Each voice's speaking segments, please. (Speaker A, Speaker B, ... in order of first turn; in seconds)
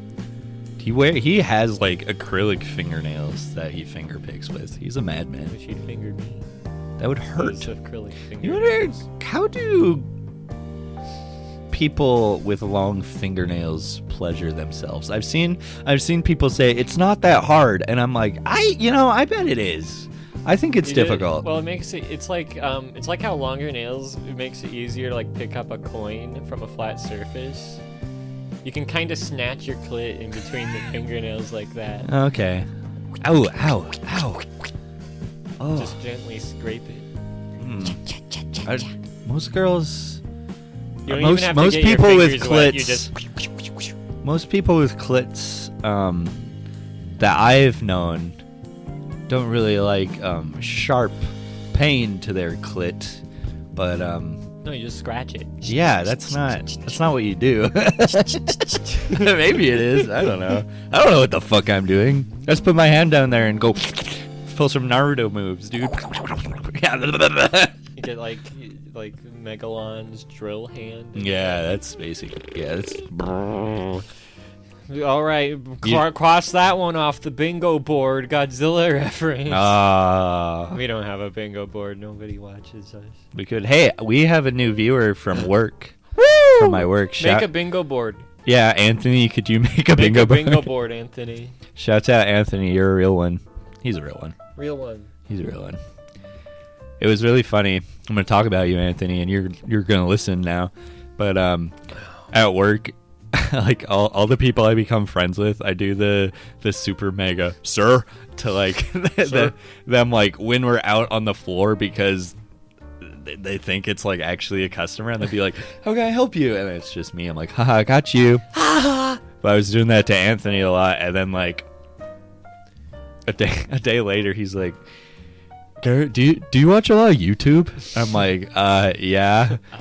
Speaker A: 0.8-5.5, 7.0-7.7, 8.4-10.1, 11.7-21.5, 32.0-32.7, 33.2-34.5, 35.6-36.0, 37.6-38.0, 38.6-40.2, 41.1-43.1, 44.2-46.4, 47.2-48.4, 49.3-51.2, 51.7-53.2, 53.7-54.4, 55.6-67.8, 71.1-74.0, 79.5-80.8, 83.3-86.0, 86.5-87.5, 88.4-90.7, 91.8-94.4, 95.3-95.8, 97.0-101.7, 102.3-112.4, 113.0-118.6, 119.3-121.7, 123.2-124.8, 125.8-129.6
Speaker B: 5.4-6.5, 7.3-9.0, 20.8-27.8, 28.6-32.1, 35.7-37.1, 38.0-38.8, 41.0-43.1, 54.6-56.9, 58.3-59.3, 68.0-71.6, 74.9-79.8, 80.7-83.2, 86.2-88.2, 89.9-91.6, 94.6-95.1, 109.2-109.5, 118.5-119.2